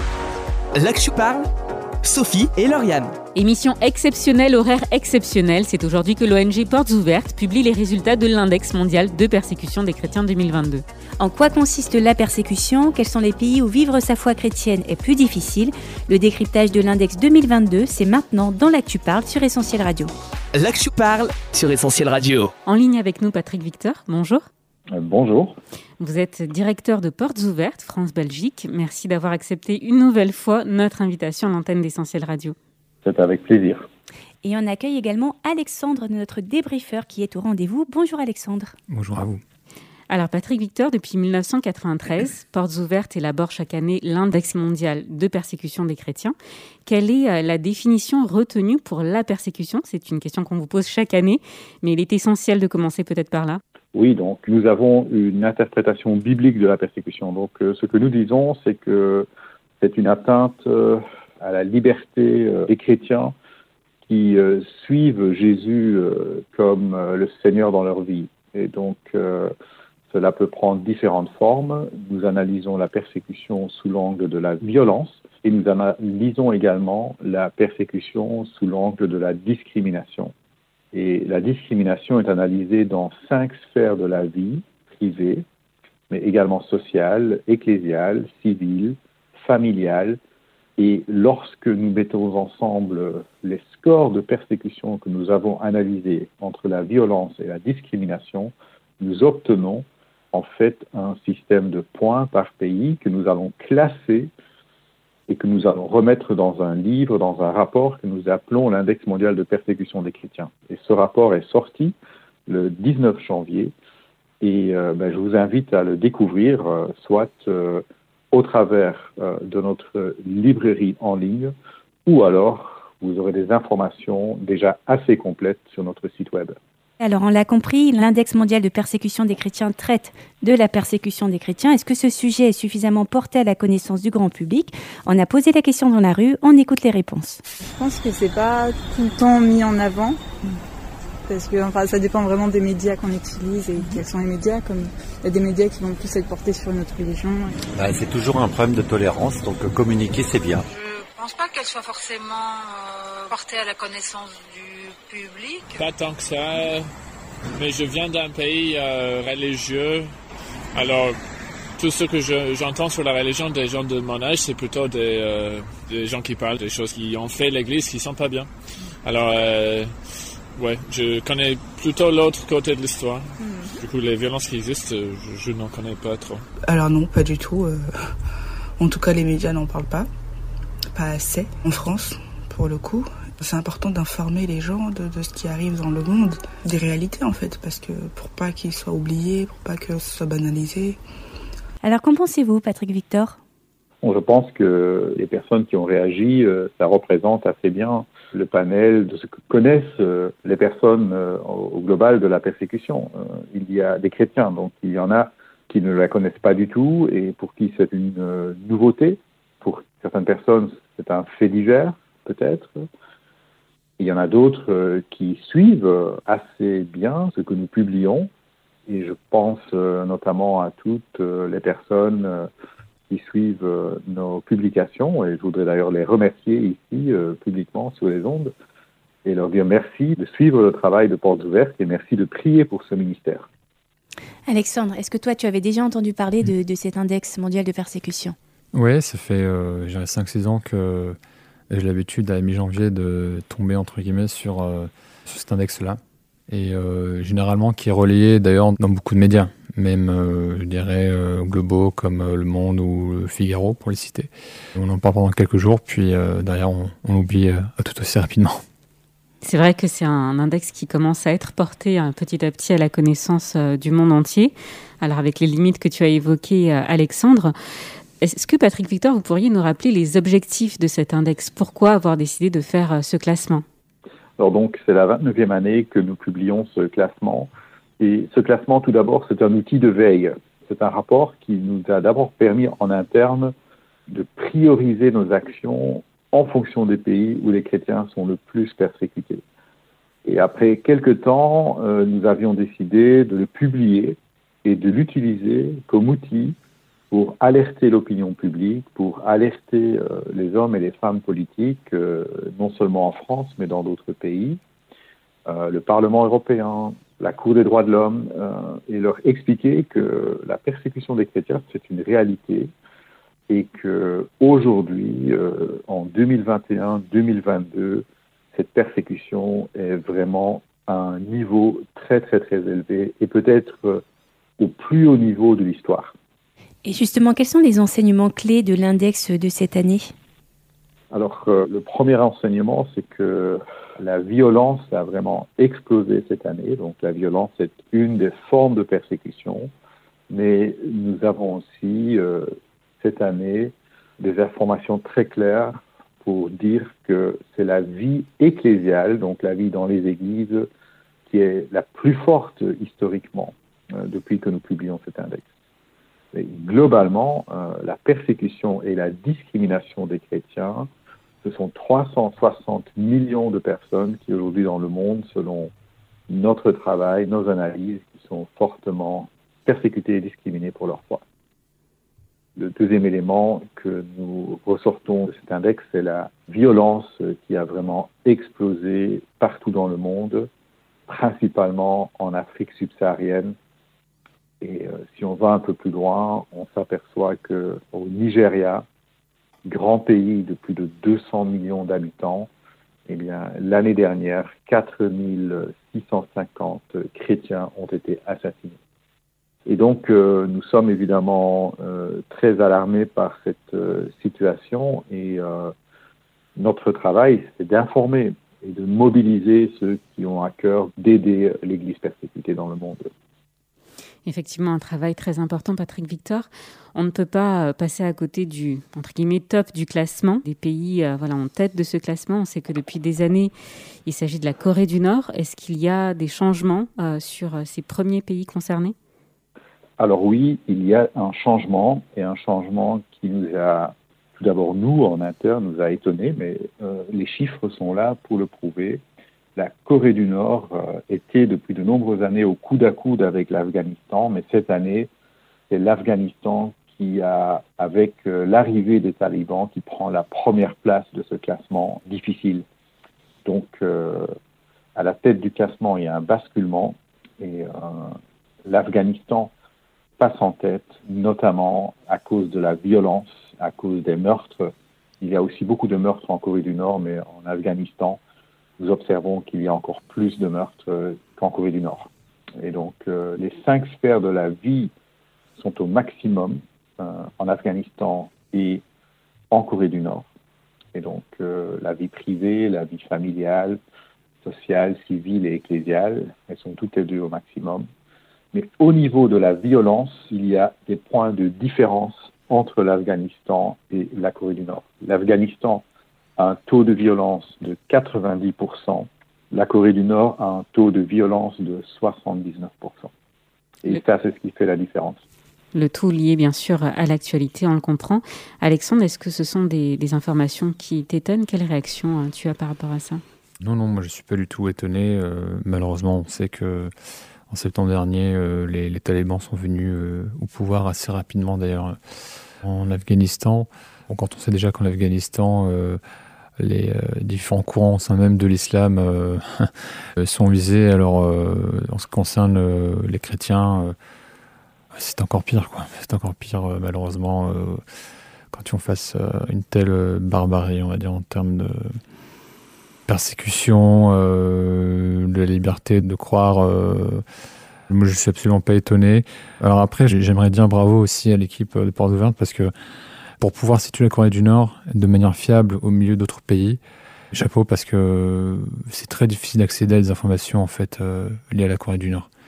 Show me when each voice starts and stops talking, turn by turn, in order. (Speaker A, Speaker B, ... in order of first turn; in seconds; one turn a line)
Speaker A: 0.8-1.5
Speaker A: 2.0-3.1
Speaker B: 3.4-10.8
Speaker C: 11.2-20.1
Speaker A: 20.5-22.5
Speaker B: 22.6-24.5
Speaker D: 24.9-25.6
Speaker B: 26.0-32.6
Speaker D: 33.0-33.9
Speaker C: 34.4-38.8
Speaker E: 38.9-39.4
Speaker B: 40.1-46.4
Speaker B: 46.9-53.6
Speaker D: 53.9-59.3
Speaker D: 59.8-63.3
Speaker D: 64.1-69.5
Speaker D: 70.1-80.3
Speaker D: 80.9-85.5
Speaker D: 86.1-90.2
Speaker D: 90.8-104.3
Speaker D: 105.3-112.0
Speaker D: 112.5-113.7
Speaker D: 114.4-121.5
Speaker D: 122.1-126.6
Speaker C: 127.0-137.4
Speaker F: 137.7-140.2
Speaker F: 141.3-147.6
Speaker G: 147.8-150.7
Speaker H: 150.7-155.8
Speaker I: 155.8-156.9
Speaker I: 157.6-160.1
Speaker I: 160.7-161.2
Speaker I: 161.8-168.5
Speaker I: 169.0-169.9
Speaker I: 170.6-176.4
Speaker F: 173.4-173.8
Speaker J: 176.7-178.2
Speaker J: 178.8-180.1
Speaker J: 180.9-191.0
Speaker C: 191.8-193.4
Speaker D: 194.0-212.8
Speaker D: 214.0-218.3
Speaker D: 218.9-222.5
Speaker D: 223.1-228.5
Speaker D: 229.2-233.5
Speaker C: 234.5-238.4
Speaker E: 238.7-241.2
Speaker E: 241.7-258.6
Speaker B: 259.4-267.5
Speaker B: 268.2-273.6
Speaker D: 274.4-283.5
Speaker D: 284.1-289.4
Speaker D: 290.2-296.6
Speaker D: 297.1-304.6
Speaker D: 305.5-312.7
Speaker D: 313.5-324.0
Speaker D: 324.6-326.1
Speaker C: 326.9-330.1
Speaker D: 331.1-339.7
Speaker D: 340.3-350.7
Speaker D: 351.3-355.5
Speaker D: 356.3-360.9
Speaker D: 361.4-365.7
Speaker D: 366.3-371.2
Speaker D: 372.6-380.5
Speaker D: 381.1-383.6
Speaker D: 384.6-388.9
Speaker D: 389.6-392.5
Speaker D: 393.1-398.8
Speaker D: 399.7-405.7
Speaker D: 406.6-413.1
Speaker B: 414.3-423.5
Speaker B: 424.1-428.9
Speaker D: 430.0-439.0
Speaker D: 439.6-445.1
Speaker D: 445.7-452.6
Speaker D: 453.4-454.3
Speaker D: 454.9-459.5
Speaker D: 460.2-468.2
Speaker D: 468.8-474.9
Speaker D: 475.6-478.8
Speaker D: 479.5-480.3
Speaker D: 480.9-483.8
Speaker D: 484.4-487.9
Speaker D: 488.5-495.8
Speaker D: 496.4-503.1
Speaker D: 503.8-505.2
Speaker B: 505.7-513.2
Speaker E: 513.6-516.9
Speaker E: 517.5-522.0
Speaker E: 522.6-526.0
Speaker E: 526.6-534.0
Speaker E: 534.9-537.8
Speaker E: 538.5-542.0
Speaker E: 543.1-547.2
Speaker E: 547.9-552.7
Speaker E: 553.4-556.8
Speaker E: 557.3-562.3